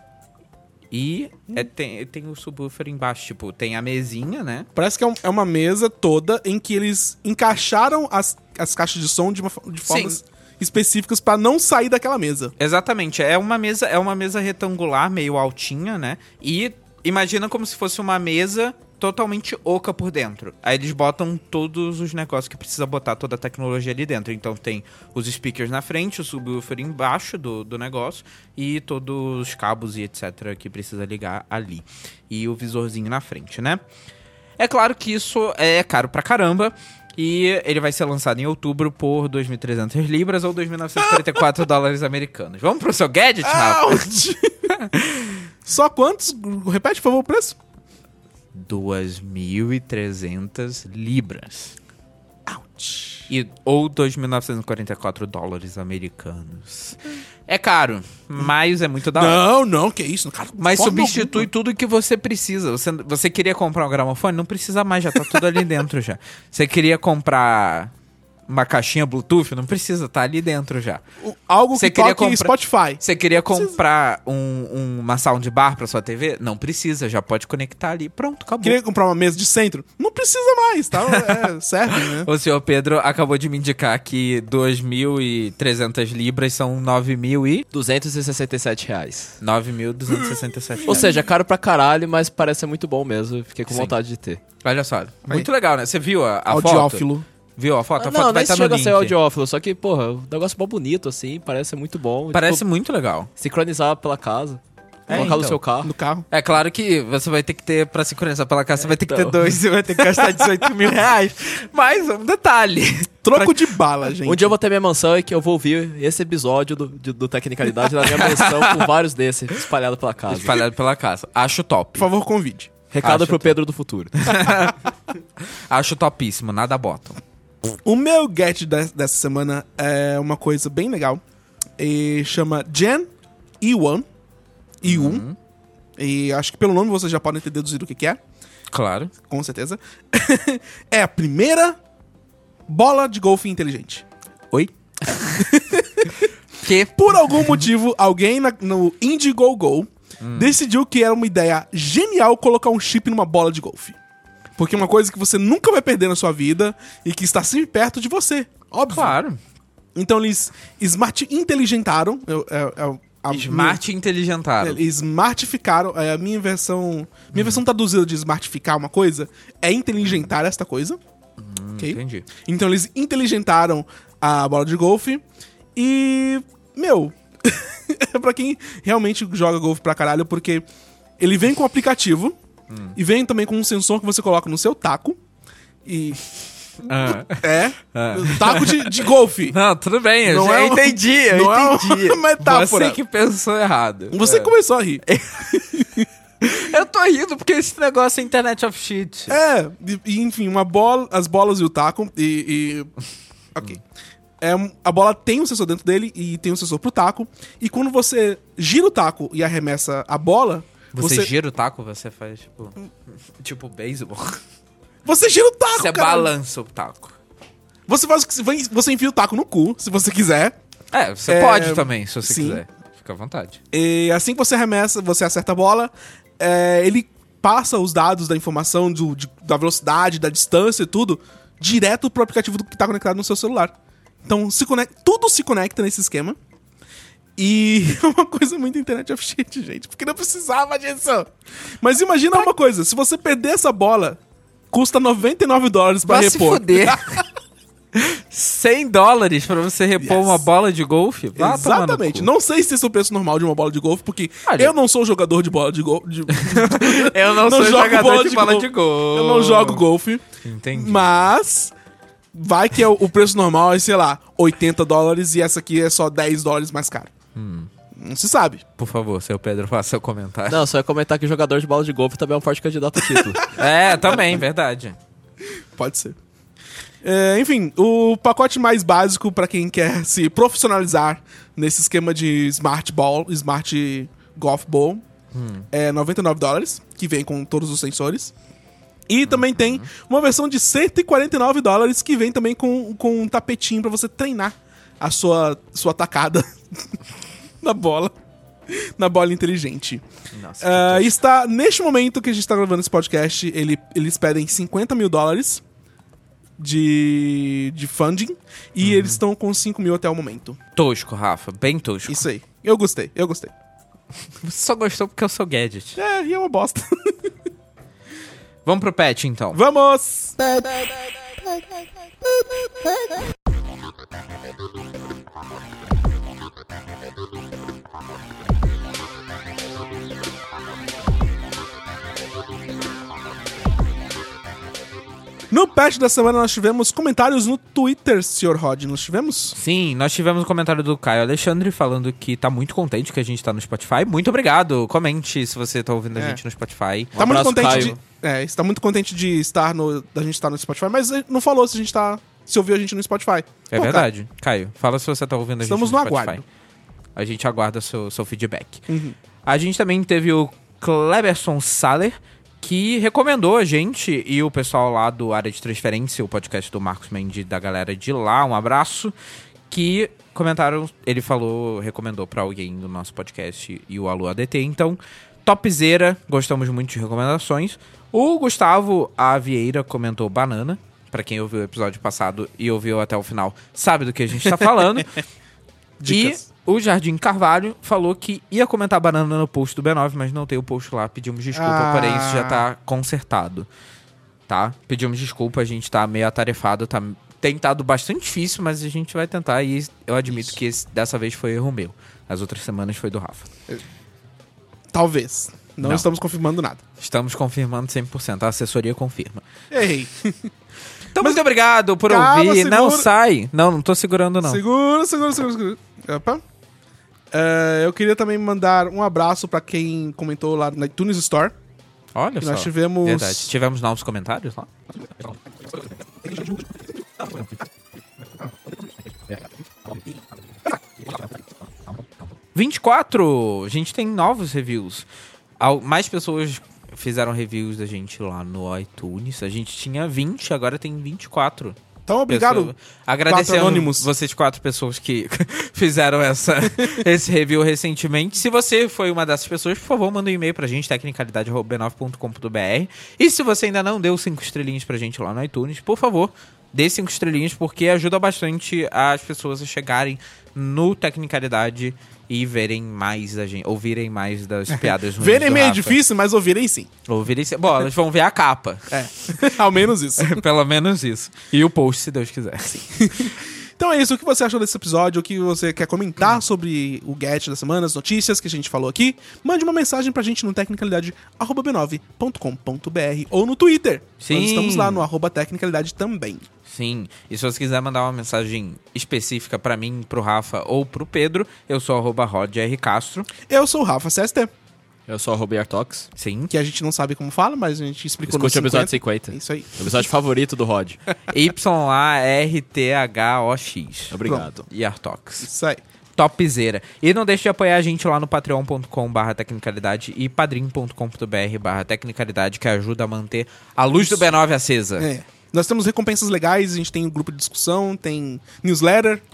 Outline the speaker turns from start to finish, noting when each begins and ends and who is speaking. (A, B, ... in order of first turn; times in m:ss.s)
0:00.9-0:04.7 A
0:04.8-0:12.5 B
0:09.9-0:10.2 A
0:12.6-0:33.8 A
0:34.6-0:45.4 A
0:41.0-0:41.4 B
0:43.4-0:44.7 B
0:45.6-0:47.6 B
0:48.5-0:51.8 A
0:52.4-0:53.3 B
0:53.3-0:59.4 A
0:59.1-1:01.5 B
1:00.6-1:07.9 A
1:08.5-1:11.0 A
1:11.2-1:13.8 B
1:11.7-1:18.8 A
1:18.6-1:22.3 B
1:21.1-1:21.4 A
1:22.0-1:27.7 A
1:27.7-1:29.4 C
1:29.4-1:31.1 A
1:30.9-1:34.4 C
1:33.7-1:33.9 A
1:34.6-1:39.1 A
1:36.5-1:37.3 B
1:38.0-1:42.6 C
1:42.3-1:43.3 A
1:43.4-1:45.9 C
1:45.1-1:45.6 A
1:45.1-1:46.3 B
1:46.3-1:53.7 A
1:48.9-1:49.4 C
1:53.2-1:54.5 B
1:54.2-2:00.6 C
1:58.0-1:58.9 A
2:00.3-2:02.1 A
2:02.0-2:02.7 B
2:02.9-2:04.6 C
2:03.0-2:03.5 A
2:04.2-2:04.8 A
2:05.5-2:07.2 A
2:07.8-2:11.2 B
2:11.8-2:14.1 B
2:14.8-2:15.2 B
2:14.8-2:15.4 A
2:16.0-2:18.2 B
2:18.7-2:19.1 A
2:19.3-2:21.8 B
2:22.7-2:24.0 B
2:24.5-2:25.4 A
2:25.3-2:26.3 B
2:26.6-2:27.6 A
2:27.0-2:34.0 B
2:30.2-2:30.6 A
2:34.6-2:39.2 B
2:38.9-2:39.4 A
2:40.0-2:43.8 B
2:43.3-2:44.8 A
2:44.6-2:51.0 B
2:47.3-2:47.6 A
2:51.4-2:52.3 A
2:51.8-2:55.2 B
2:55.8-3:00.6 B
3:01.2-3:02.4 B
3:02.7-3:03.0 A
3:03.0-3:05.2 B
3:05.8-3:06.2 B
3:06.8-3:14.5 A
3:07.0-3:09.6 B
3:10.2-3:13.0 B
3:14.1-3:16.1 B
3:15.0-3:15.7 A
3:16.4-3:19.4 A
3:19.3-3:22.9 B
3:24.4-3:31.3 B
3:30.9-3:34.4 A
3:35.0-3:36.3 B
3:35.7-3:37.2 A
3:37.9-3:40.6 B
3:40.9-3:43.6 A
3:41.3-3:42.6 B
3:43.7-3:56.4 B
3:57.4-4:04.2 B
4:04.7-4:07.2 B
4:06.1-4:07.2 A
4:08.0-4:12.3 A
4:10.0-4:10.5 B
4:11.4-4:21.7 B
4:14.4-4:14.7 A
4:16.3-4:19.8 A
4:20.4-4:21.3 A
4:22.3-4:27.1 B
4:27.4-4:27.7 A
4:28.0-4:28.6 B
4:28.8-4:30.6 A
4:30.5-4:33.6 C
4:33.5-4:35.0 A
4:35.4-4:36.2 B
4:37.0-4:45.0 B
4:45.3-4:45.7 A
4:45.7-4:48.3 B
4:49.1-4:57.0 B
4:49.3-4:49.9 A
4:57.6-4:58.1 B
4:58.7-5:00.0 B
5:00.3-5:01.2 A
5:00.6-5:05.6 B
5:06.6-5:10.6 B
5:08.8-5:09.2 A
5:10.8-5:12.2 A
5:12.1-5:13.5 B
5:14.4-5:16.0 A
5:16.0-5:17.3 B
5:18.6-5:19.6 A
5:19.5-5:20.6 B
5:22.4-5:22.8 B
5:35.5-5:39.6 B
5:39.5-5:48.0 A
5:46.1-5:46.4 B
5:47.1-5:54.1 B
5:47.2-5:48.0 C
5:53.7-5:56.4 A
5:55.6-5:56.4 B
5:57.2-5:58.9 A
5:58.9-5:59.2 B
5:59.4-6:09.1 A
6:09.7-6:25.1 A
6:26.0-6:26.5 B
6:26.0-6:33.7 A
6:31.5-6:32.7 B
6:34.5-6:43.5 A
6:40.3-6:40.6 B
6:44.9-6:46.8 B
6:45.8-6:46.1 A
6:47.0-6:49.4 A
6:49.7-6:50.5 B
6:51.1-6:54.6 A
6:51.2-6:51.4 B
6:52.1-6:53.1 B
6:54.4-6:56.4 B
6:57.3-7:01.6 B
7:02.1-7:04.7 A
7:02.4-7:03.5 B
7:12.6-7:15.1 A
7:15.6-7:46.0 A
7:22.1-7:22.7 B
7:23.3-7:24.1 B
7:26.8-7:27.0 B
7:44.7-7:46.9 B
7:47.1-7:49.6 A
7:48.9-7:50.4 B
7:50.2-7:53.3 A
7:52.8-8:06.4 B
8:04.2-8:05.1 A
8:06.7-8:13.3 A
8:13.4-8:14.5 B
8:15.1-8:16.1 C
8:16.2-8:16.5 A
8:16.5-8:20.1 B
8:18.3-8:21.0 C
8:21.3-8:25.5 A
8:24.1-8:24.6 C
8:24.2-8:24.5 B
8:25.4-8:25.8 B
8:26.2-8:35.1 A
8:34.0-8:34.3 B
8:35.0-8:39.2 B